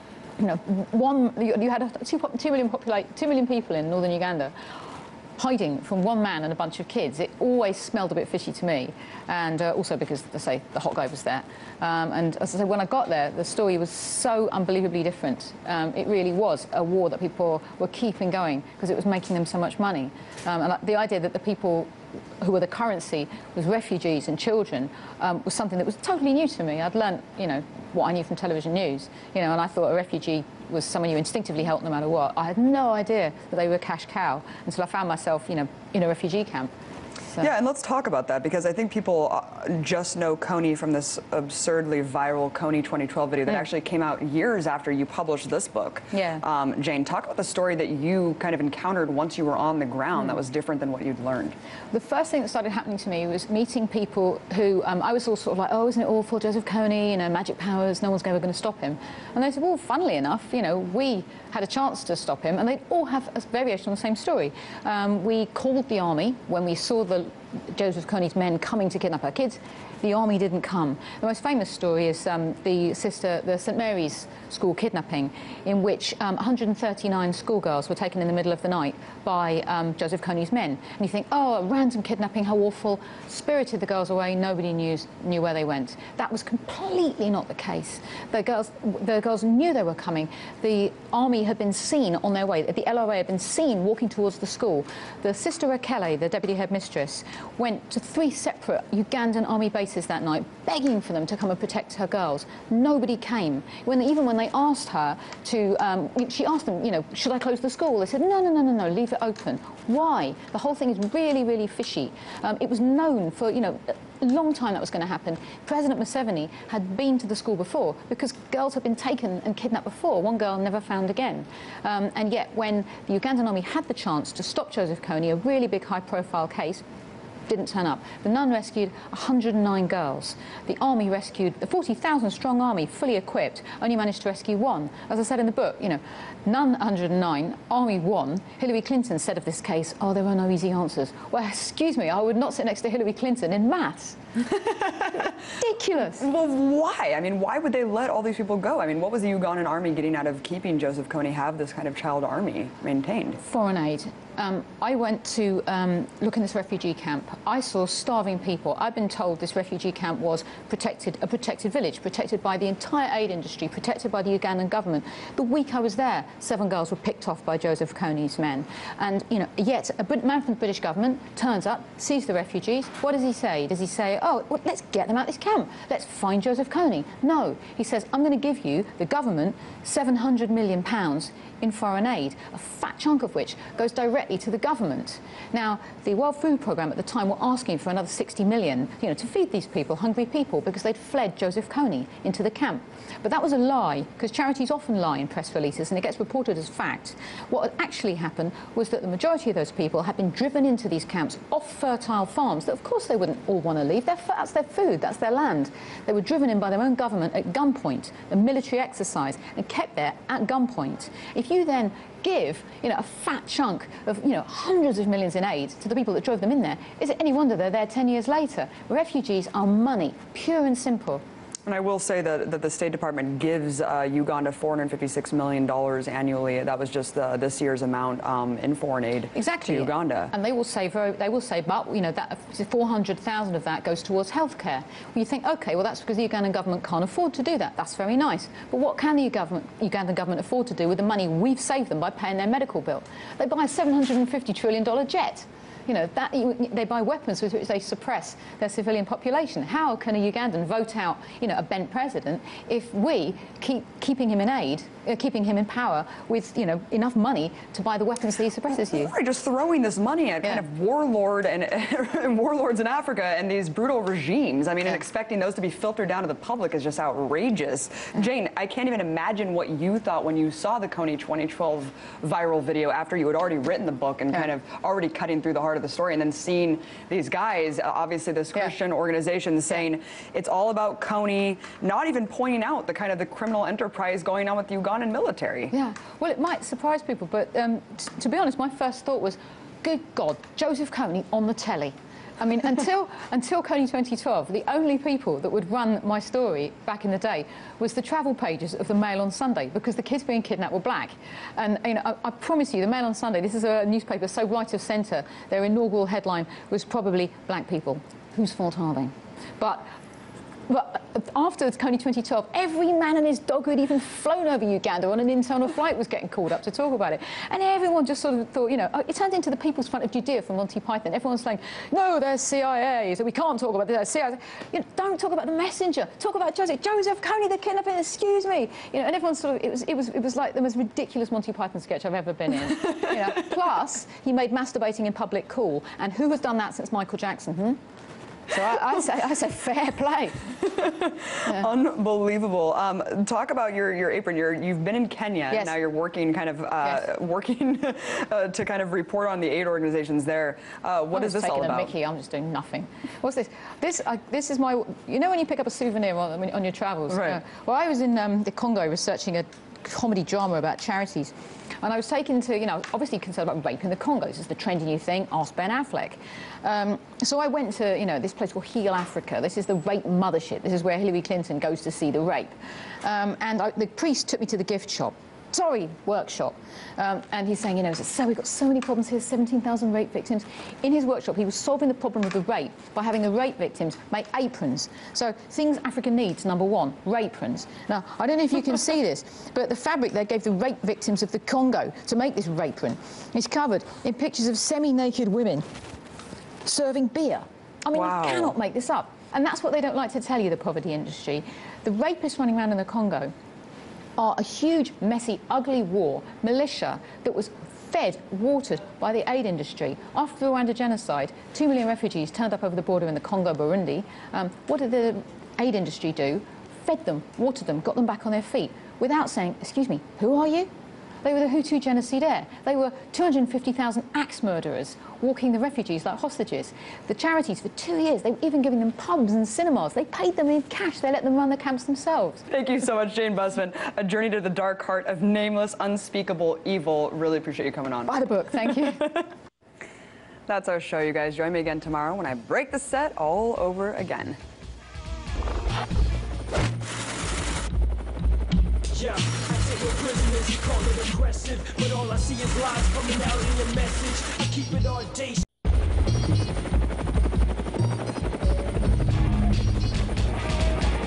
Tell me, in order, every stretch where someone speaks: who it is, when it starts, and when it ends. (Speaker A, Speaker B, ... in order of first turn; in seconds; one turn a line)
Speaker A: 0.4-4.5
Speaker A: 5.4-36.7
Speaker B: 37.4-51.5
Speaker A: 46.1-46.4
Speaker A: 51.9-126.8
Speaker A: 127.5-144.2
Speaker B: 144.7-145.3
Speaker A: 145.1-146.2
Speaker B: 146.2-153.4
Speaker A: 153.4-221.2
Speaker B: 221.7-230.3
Speaker A: 229.3-259.1
Speaker B: 258.9-285.7
Speaker A: 285.7-309.9
Speaker A: 310.7-337.8
Speaker B: 332.8-333.1
Speaker A: 338.5-340.5
Speaker B: 340.6-351.9
Speaker A: 351.1-395.6
Speaker B: 357.1-357.4
Speaker A: 396.6-403.3
Speaker B: 397.9-398.5
Speaker A: 404.2-420.7
Speaker A: 421.2-432.4
Speaker B: 432.5-439.2
Speaker A: 438.1-439.2
Speaker B: 440.5-444.4
Speaker C: 448.9-455.4